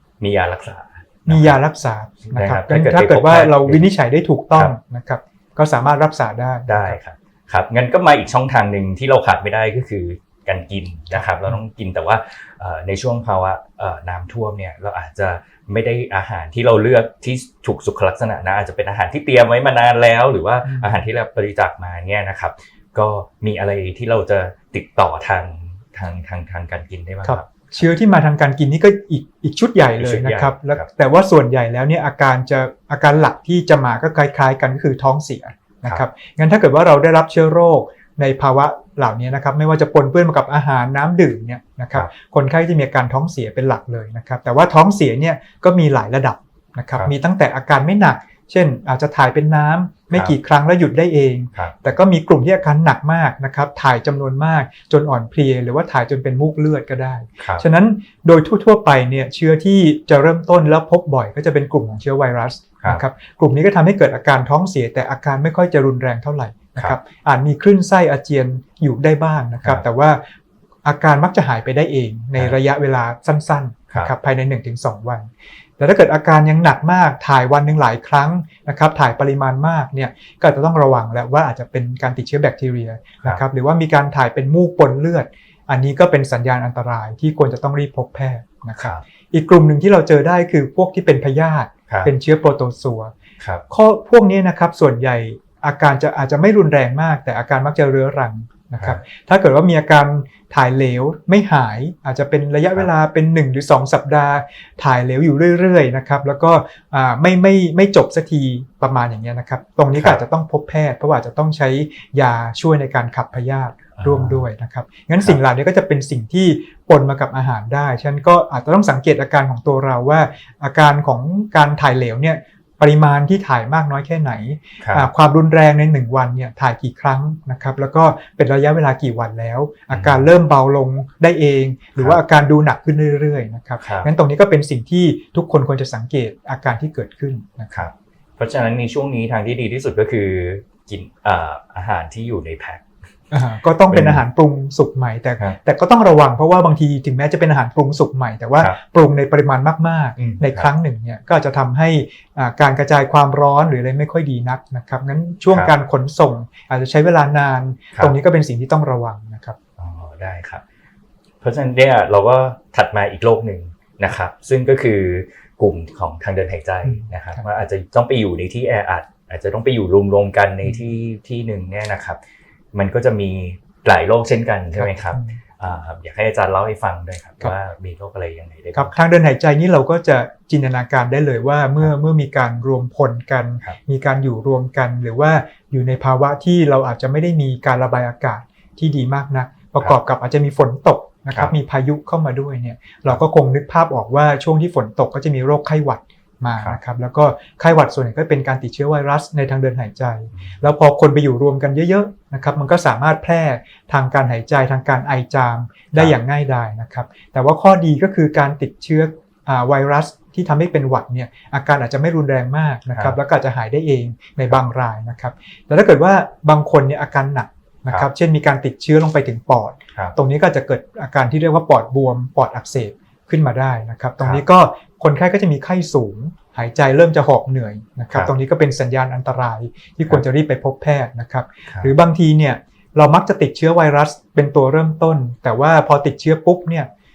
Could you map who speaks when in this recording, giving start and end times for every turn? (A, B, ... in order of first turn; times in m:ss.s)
0:00.2-0:01.6 A
0:01.3-0:07.0 B
0:02.3-0:03.8 A
0:06.7-0:27.8 A
0:11.1-0:11.6 B
0:20.6-0:21.0 B
0:27.2-1:10.2 B
0:30.0-0:30.8 A
1:10.8-1:33.1 B
1:33.7-2:17.8 B
1:54.0-1:54.4 A
2:04.8-2:05.1 A
2:09.9-2:10.2 A
2:13.8-2:14.1 A
2:17.7-2:22.8 A
2:23.3-2:39.6 B
2:23.9-2:24.2 A
2:30.2-2:30.7 A
2:39.8-2:40.6 A
2:41.4-2:52.2 A
2:52.7-2:58.9 A
2:54.8-2:55.4 B
2:58.7-3:56.9 B